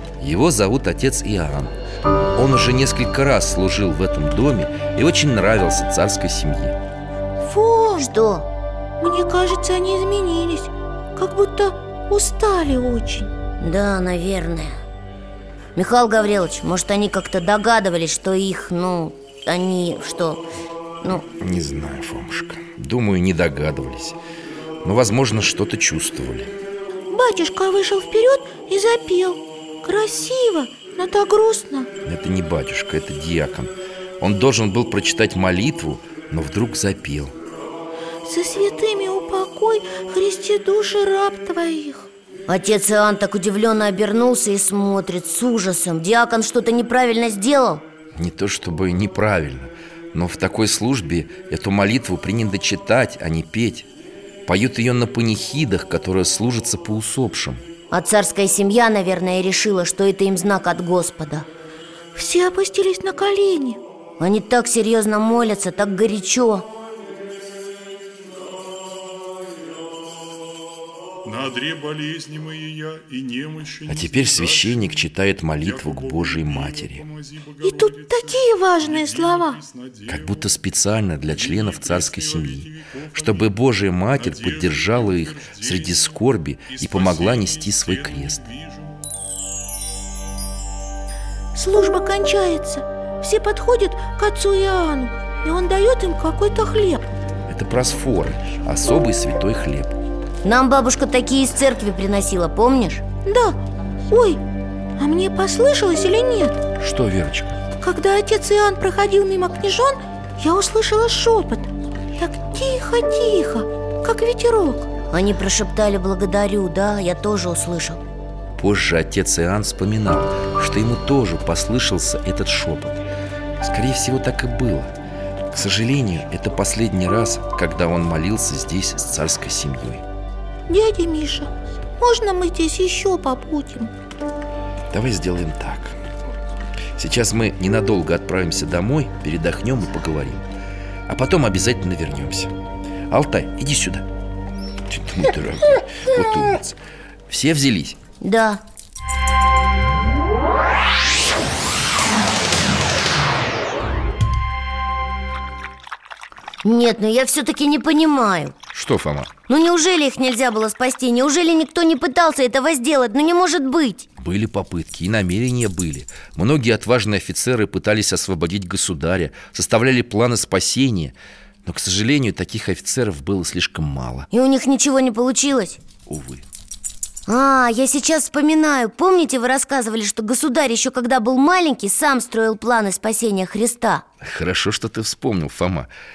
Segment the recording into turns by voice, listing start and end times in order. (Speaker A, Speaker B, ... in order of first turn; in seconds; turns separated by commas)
Speaker A: 0.2-1.7, Speaker A: 2.3-6.8, Speaker B: 7.4-8.1, Speaker C: 8.0-8.5, Speaker B: 9.0-13.3, Speaker C: 13.6-14.8, Speaker C: 15.8-20.4, Speaker A: 21.3-24.2, Speaker A: 24.8-26.5, Speaker B: 27.1-31.9, Speaker A: 32.0-37.3, Speaker B: 38.2-42.1, Speaker C: 42.5-47.8, Speaker A: 48.1-53.9, Speaker A: 54.5-57.6, Speaker C: 57.9-61.5, Speaker B: 62.1-63.8, Speaker C: 64.2-66.7, Speaker D: 71.2-75.0, Speaker A: 73.9-77.0, Speaker D: 75.6-80.5, Speaker B: 77.6-79.6, Speaker A: 80.1-88.4, Speaker D: 81.2-83.5, Speaker D: 84.1-89.1, Speaker B: 91.5-97.1, Speaker A: 97.5-99.9, Speaker C: 100.4-103.0, Speaker B: 103.2-104.4, Speaker B: 105.0-106.6, Speaker A: 106.8-107.6, Speaker B: 107.8-114.9, Speaker C: 115.1-118.0, Speaker A: 118.5-123.0, Speaker A: 123.6-124.9, Speaker A: 125.5-130.0, Speaker B: 130.7-133.9, Speaker A: 134.9-136.0, Speaker A: 136.9-140.4, Speaker A: 141.1-142.5, Speaker A: 143.1-144.1, Speaker A: 144.9-146.8, Speaker A: 147.3-148.0, Speaker C: 148.2-148.6, Speaker C: 156.6-158.5, Speaker A: 158.7-159.3, Speaker C: 159.5-164.1, Speaker A: 164.2-174.3, Speaker C: 174.3-175.8, Speaker A: 176.1-176.4, Speaker C: 177.3-184.0, Speaker A: 184.2-185.9